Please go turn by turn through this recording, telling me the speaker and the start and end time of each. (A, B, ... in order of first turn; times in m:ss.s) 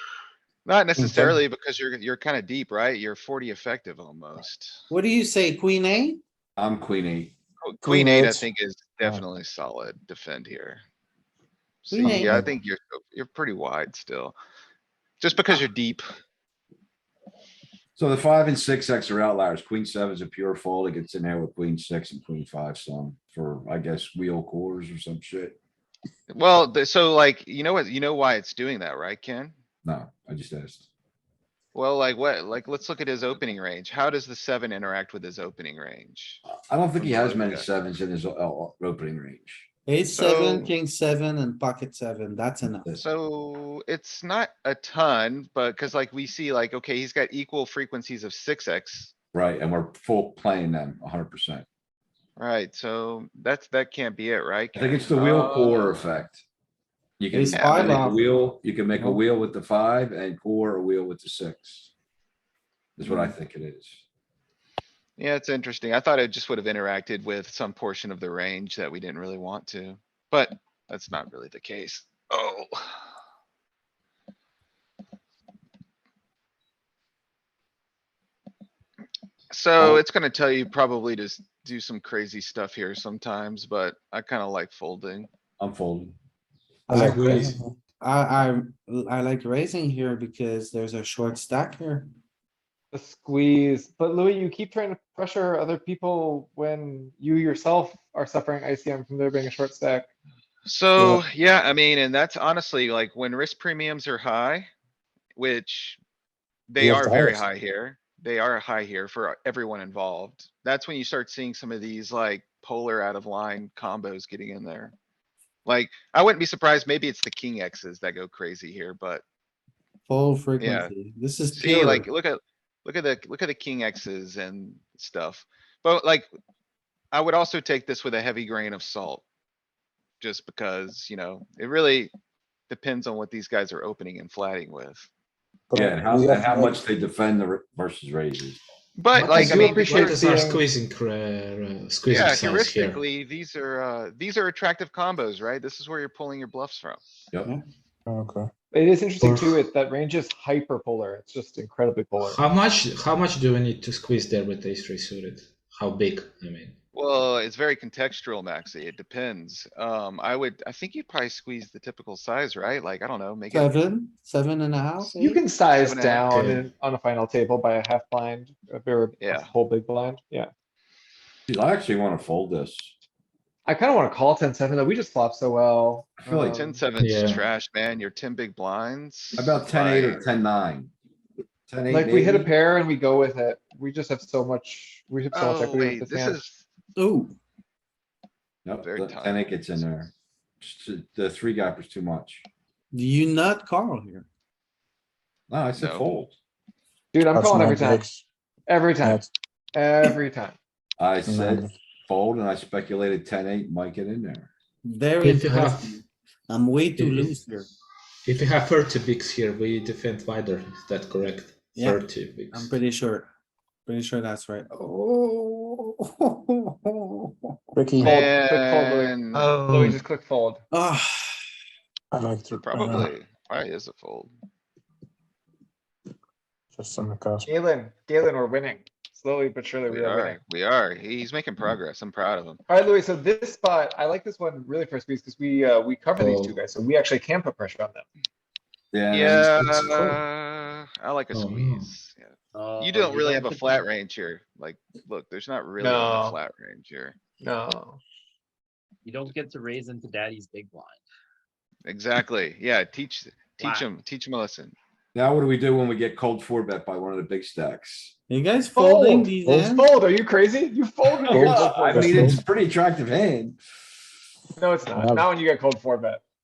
0:00.6-0:04.8 A
0:01.0-0:01.4 B
0:04.9-0:06.2 B
0:06.6-0:07.4 C
0:07.6-0:10.8 A
0:07.8-0:08.4 D
0:11.8-0:14.4 A
0:11.9-0:12.4 B
0:12.1-0:12.5 D
0:15.2-0:16.0 A
0:18.0-0:25.6 C
0:26.3-0:29.5 A
0:29.8-0:30.9 C
0:31.8-0:36.4 A
0:36.5-0:39.7 C
0:37.0-0:37.7 A
0:39.9-0:42.9 B
0:40.1-0:40.7 A
0:43.0-0:49.1 A
0:49.3-0:51.7 C
0:52.4-0:56.1 A
0:54.8-0:56.4 C
0:57.2-1:01.9 C
0:57.3-0:58.2 B
0:57.5-0:58.1 A
0:59.0-0:59.2 B
1:03.0-1:04.0 C
1:03.0-1:03.3 B
1:05.2-1:13.0 A
1:19.5-1:25.3 A
1:25.6-1:26.2 C
1:26.9-1:32.1 B
1:26.9-1:27.7 D
1:27.0-1:27.6 E
1:32.9-1:40.1 F
1:40.6-1:44.7 A
1:41.0-1:41.2 D
1:45.4-1:46.0 A
1:46.7-1:54.9 A
1:46.8-1:47.4 D
1:55.6-1:59.2 A
2:00.1-2:02.1 B
2:00.6-2:00.9 A
2:01.5-2:06.3 A
2:07.1-2:09.2 A
2:10.2-2:12.1 A
2:12.7-2:15.1 A
2:15.7-2:16.8 D
2:15.8-2:18.6 C
2:19.0-2:20.2 A
2:19.1-2:23.0 E
2:19.3-2:20.6 F
2:22.1-2:27.0 A
2:28.1-2:28.5 D
2:28.7-2:32.4 F
2:29.2-2:29.7 D
2:32.2-2:36.7 E
2:36.9-2:43.8 A
2:43.5-2:45.4 B
2:45.2-2:50.5 F
2:45.8-2:46.3 A
2:46.2-2:46.7 E
2:49.2-2:49.5 A
2:51.5-2:52.9 C
2:53.7-2:56.7 F
2:56.2-2:56.6 C
2:56.5-3:00.4 A
2:57.0-2:57.4 E
2:59.4-3:00.9 C
3:01.7-3:02.6 C
3:01.9-3:06.4 F
3:05.3-3:06.6 A
3:07.0-3:07.4 B
3:08.6-3:12.5 C
3:08.8-3:09.6 A
3:12.9-3:14.3 B
3:15.5-3:16.4 C
3:15.8-3:16.1 A
3:17.1-3:18.0 F
3:17.3-3:18.2 D
3:18.7-3:19.2 F
3:19.0-3:19.3 D
3:19.7-3:20.6 F
3:21.0-3:24.5 C
3:21.3-3:21.7 D
3:24.8-3:27.7 B
3:25.2-3:26.0 E
3:27.0-3:27.4 E
3:28.2-3:32.7 E
3:31.8-3:33.3 B
3:33.9-3:37.4 B
3:37.7-3:38.2 D
3:38.0-3:39.5 A
3:38.0-3:39.1 F
3:39.3-3:40.0 B
3:39.8-3:40.6 F
3:40.7-3:41.3 B
3:42.1-3:43.1 D
3:42.5-3:44.3 A
3:46.7-3:47.5 D
3:47.5-3:50.4 F
3:49.9-3:52.6 A
3:52.7-3:58.1 F
3:56.1-3:56.6 E
3:58.9-3:59.9 C
3:59.1-4:07.2 A
3:59.6-4:00.2 E
4:01.3-4:01.9 E
4:02.5-4:03.9 G
4:05.8-4:06.4 F
4:07.4-4:08.0 F
4:09.0-4:11.0 G
4:11.9-4:14.8 A
4:13.6-4:13.9 G
4:15.1-4:18.1 C
4:18.3-4:19.9 B
4:18.8-4:22.3 F
4:21.2-4:23.6 C
4:21.3-4:22.4 D
4:24.6-4:26.2 F
4:24.9-4:25.4 D